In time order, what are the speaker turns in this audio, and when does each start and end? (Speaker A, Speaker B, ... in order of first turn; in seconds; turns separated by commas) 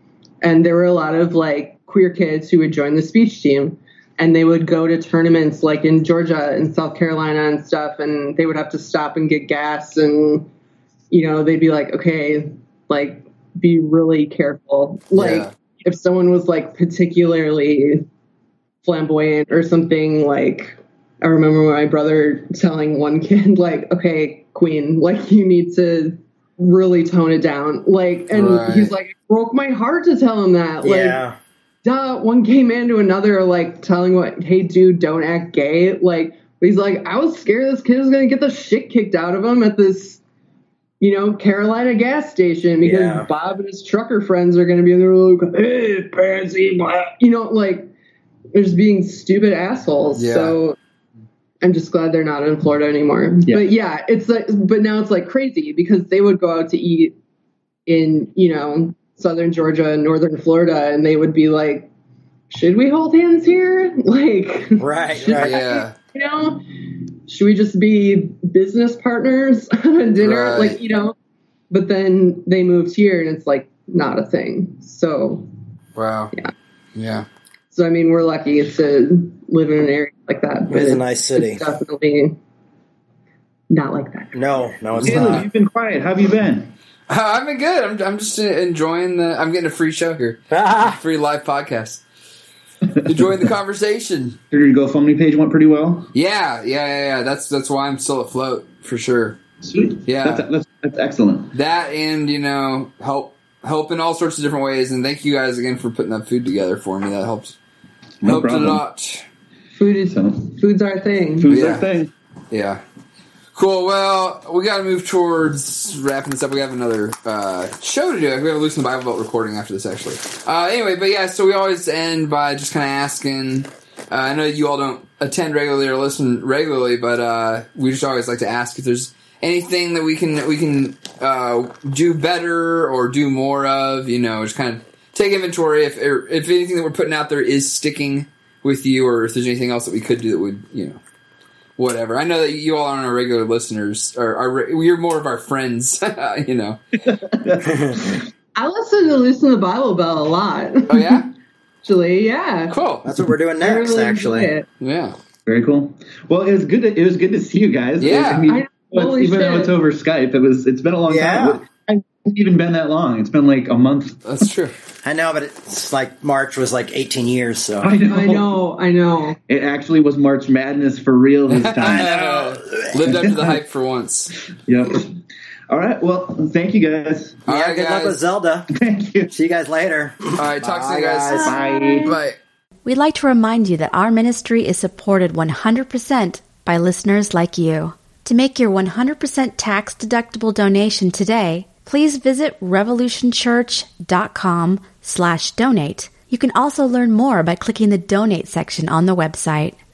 Speaker A: 0.4-10.5, Speaker A: 11.1-18.1, Speaker B: 15.1-15.5, Speaker A: 18.8-31.2, Speaker B: 28.3-28.9, Speaker C: 30.8-31.4, Speaker A: 31.8-40.2, Speaker A: 41.0-47.9, Speaker C: 42.8-43.3, Speaker A: 48.5-50.8, Speaker B: 50.2-50.6, Speaker A: 51.6-57.1, Speaker A: 57.9-61.9, Speaker A: 62.5-71.2, Speaker C: 64.8-65.6, Speaker B: 65.2-65.9, Speaker B: 70.2-70.8, Speaker A: 71.7-75.5, Speaker B: 76.0-76.3, Speaker B: 77.0-77.3, Speaker A: 77.7-82.4, Speaker C: 80.7-81.6, Speaker A: 83.7-84.7, Speaker C: 84.3-85.5, Speaker B: 85.0-85.5, Speaker D: 85.0-86.7, Speaker B: 87.1-92.0, Speaker C: 90.5-91.0, Speaker D: 92.9-93.4, Speaker B: 93.0-94.4, Speaker D: 94.5-96.1, Speaker B: 96.1-99.4, Speaker D: 99.6-101.5, Speaker B: 100.1-100.5, Speaker B: 101.5-107.6, Speaker D: 108.2-108.8, Speaker B: 108.2-109.2, Speaker A: 109.7-111.5, Speaker D: 110.1-110.5, Speaker D: 111.4-112.1, Speaker B: 111.5-111.9, Speaker B: 112.5-112.8, Speaker B: 113.5-141.0, Speaker B: 141.8-146.8, Speaker D: 147.1-148.3, Speaker A: 148.6-151.2, Speaker B: 150.9-151.3, Speaker A: 151.8-152.8, Speaker B: 152.7-153.1, Speaker C: 153.0-154.5, Speaker A: 153.6-154.7, Speaker B: 154.8-155.2, Speaker D: 155.4-164.5, Speaker B: 158.0-158.5, Speaker A: 158.5-159.8, Speaker C: 161.1-161.6, Speaker B: 164.2-164.7, Speaker C: 165.0-167.9, Speaker D: 167.8-168.6, Speaker A: 168.1-169.4, Speaker D: 169.5-173.6, Speaker B: 171.5-174.3, Speaker C: 171.8-173.3, Speaker D: 174.5-177.4, Speaker B: 177.5-178.2, Speaker C: 177.5-178.7, Speaker D: 178.7-179.3, Speaker C: 179.3-181.6, Speaker B: 180.4-181.5, Speaker A: 181.3-182.2, Speaker D: 181.4-182.2, Speaker B: 182.1-182.4, Speaker E: 182.8-199.8